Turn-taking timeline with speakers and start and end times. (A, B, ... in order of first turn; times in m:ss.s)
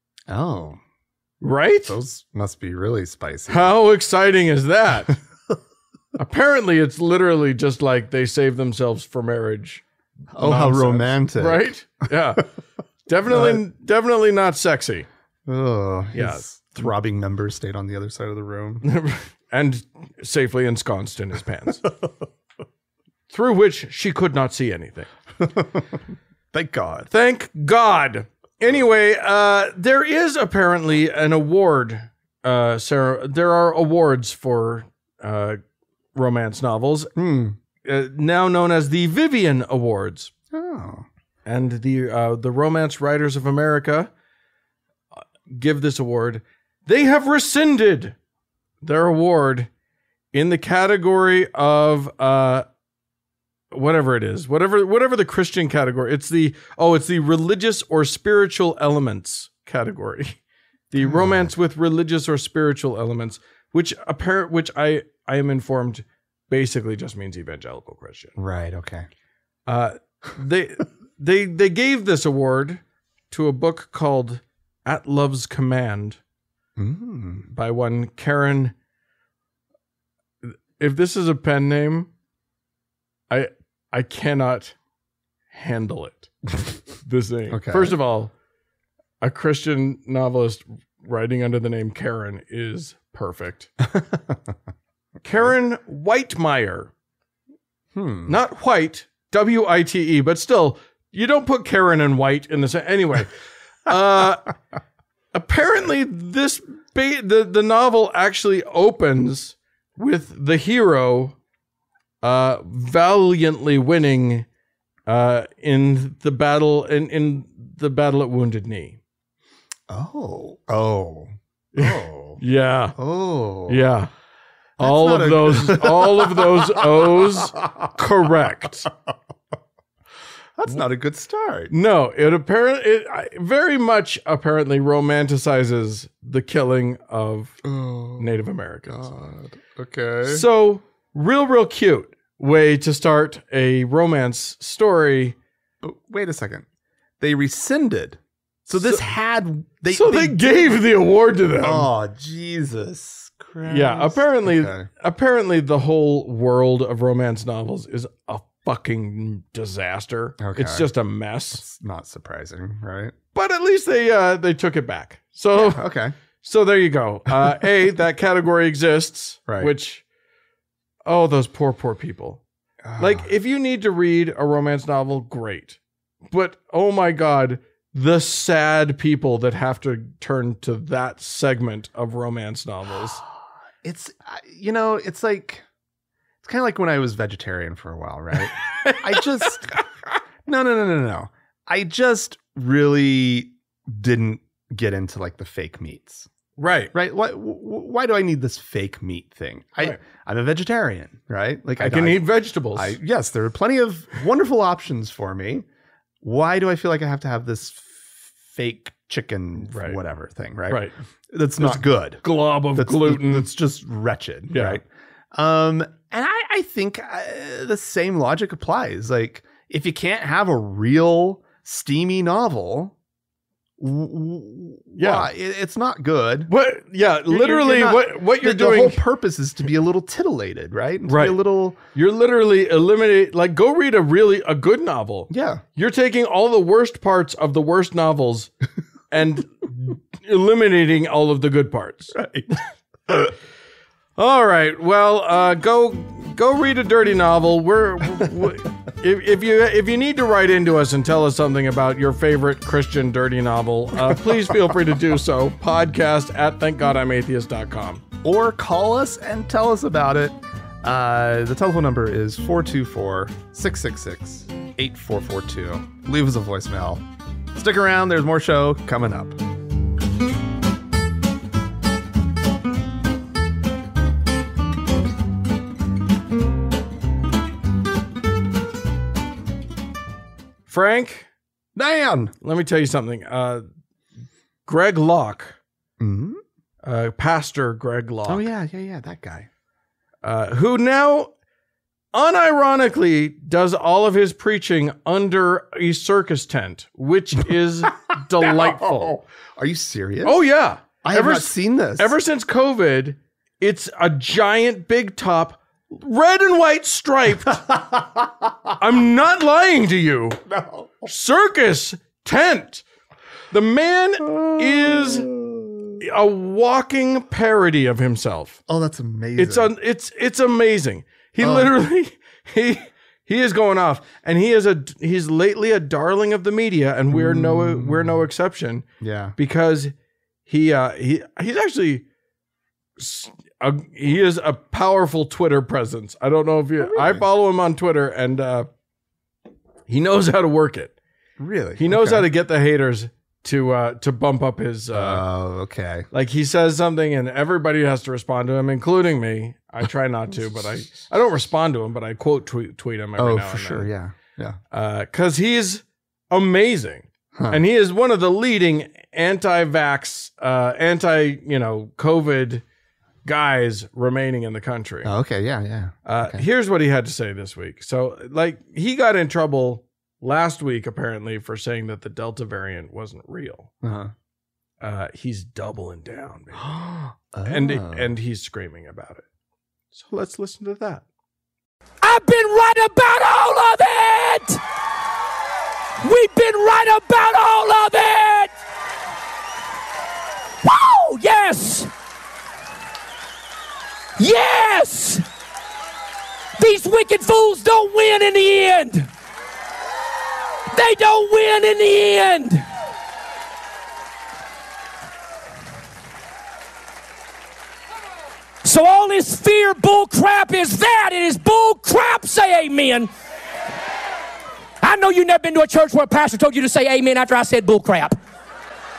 0:00.3-0:00.8 A
0:01.4-0:02.0 B
0:01.9-0:03.7 A
0:03.5-0:05.2 B
0:06.2-0:09.8 B
0:10.3-0:11.6 A
0:10.4-0:12.5 B
0:13.0-0:15.1 B
0:13.3-0:13.6 A
0:15.4-0:18.8 A
0:16.1-0:16.4 B
0:18.8-0:21.8 B
0:23.3-0:25.1 B
0:25.4-0:27.1 A
0:27.1-0:35.6 B
0:36.1-0:37.1 B
0:37.2-0:37.6 A
0:37.8-0:40.3 B
0:40.5-0:41.0 A
0:41.4-0:44.1 B
0:45.5-0:48.2 B
0:48.8-0:49.7 B
0:50.3-0:52.6 B
0:53.7-1:00.4 B
1:00.9-1:08.3 B
1:01.0-1:01.5 A
1:08.4-1:09.1 A
1:09.7-1:16.2 B
1:16.8-1:17.5 A
1:17.5-1:18.7 B
1:20.4-1:22.1 B
1:23.3-1:24.8 B
1:25.5-1:26.3 B
1:26.9-1:28.3 B
1:27.5-1:28.0 A
1:29.2-1:33.7 B
1:33.8-1:34.5 A
1:35.2-1:36.9 B
1:37.9-1:38.4 A
1:38.2-1:43.3 B
1:43.8-1:44.5 B
1:45.3-1:51.4 B
1:52.2-1:54.5 B
1:55.1-1:59.0 B
1:59.9-2:02.4 A
2:01.7-2:03.0 B
2:03.0-2:03.9 A
2:03.7-2:04.1 B
2:04.8-2:07.9 A
2:04.8-2:08.9 B
2:10.6-2:11.7 A
2:11.7-2:17.6 B
2:17.6-2:18.3 A
2:18.2-2:19.1 B
2:18.9-2:20.4 A
2:20.2-2:25.4 B
2:25.8-2:26.6 A
2:27.2-2:30.8 A
2:28.8-2:29.0 B
2:29.9-2:31.9 B
2:31.6-2:34.9 A
2:33.6-2:41.6 B
2:40.4-2:40.9 A
2:41.6-2:43.1 A
2:43.3-2:45.8 B
2:45.5-2:46.1 A
2:46.4-2:50.0 B
2:51.0-2:52.4 B
2:52.8-2:53.3 A
2:53.0-3:03.2 B
3:03.2-3:05.6 A
3:06.4-3:09.8 A
3:08.6-3:09.8 B
3:10.4-3:16.3 A
3:16.6-3:16.9 B
3:16.9-3:25.6 A
3:21.8-3:23.0 B
3:26.2-3:43.0 A
3:29.6-3:30.0 B
3:30.7-3:31.0 B
3:31.6-3:33.5 B
3:34.5-3:34.8 B
3:43.8-3:46.5 A
3:45.0-3:45.3 B
3:46.5-3:49.0 B
3:47.3-3:51.8 A
3:51.1-3:51.4 B
3:51.9-3:58.5 B
3:55.3-3:55.6 A
3:59.1-4:02.2 B
4:02.2-4:02.5 A
4:04.2-4:18.0 B
4:18.2-4:29.4 A
4:40.7-4:41.3 B
4:41.8-4:42.3 A
4:42.4-4:43.6 B
4:44.6-4:45.6 B
4:46.0-4:46.4 A
4:46.8-4:48.5 B
4:48.2-4:49.5 A
4:50.2-4:51.3 B
4:52.1-4:59.1 B
4:58.4-5:00.4 A
5:00.2-5:07.7 B
5:01.0-5:02.1 A
5:07.7-5:08.7 A
5:08.8-5:10.4 B
5:10.5-5:11.1 A
5:11.0-5:12.8 B
5:13.5-5:15.3 B
5:14.5-5:16.0 A
5:16.0-5:18.6 B
5:18.7-5:19.7 A
5:19.4-5:28.8 B
5:21.4-5:21.7 A
5:27.1-5:28.2 A
5:29.0-5:29.4 A
5:29.4-5:29.9 B
5:30.5-5:32.0 B
5:33.0-5:38.7 B
5:36.8-5:37.2 A
5:39.9-5:41.0 B
5:41.4-5:42.3 A
5:41.8-5:45.2 B
5:44.9-5:46.1 A
5:46.1-5:53.9 B
5:53.2-5:54.6 A
5:54.7-6:02.6 B
5:57.3-5:57.6 A
6:03.2-6:05.1 B
6:05.0-6:06.4 A
6:06.0-6:13.7 B
6:13.8-6:14.1 A
6:14.8-6:16.6 B
6:16.5-6:18.1 A
6:17.4-6:19.2 B
6:19.9-6:21.0 B
6:22.0-6:24.6 C
6:26.0-6:28.5 C
6:30.6-6:31.9 C
6:34.2-6:35.2 C
6:36.6-6:39.1 C
6:40.7-6:42.6 C
6:48.6-6:53.1 C
6:54.8-6:58.2 C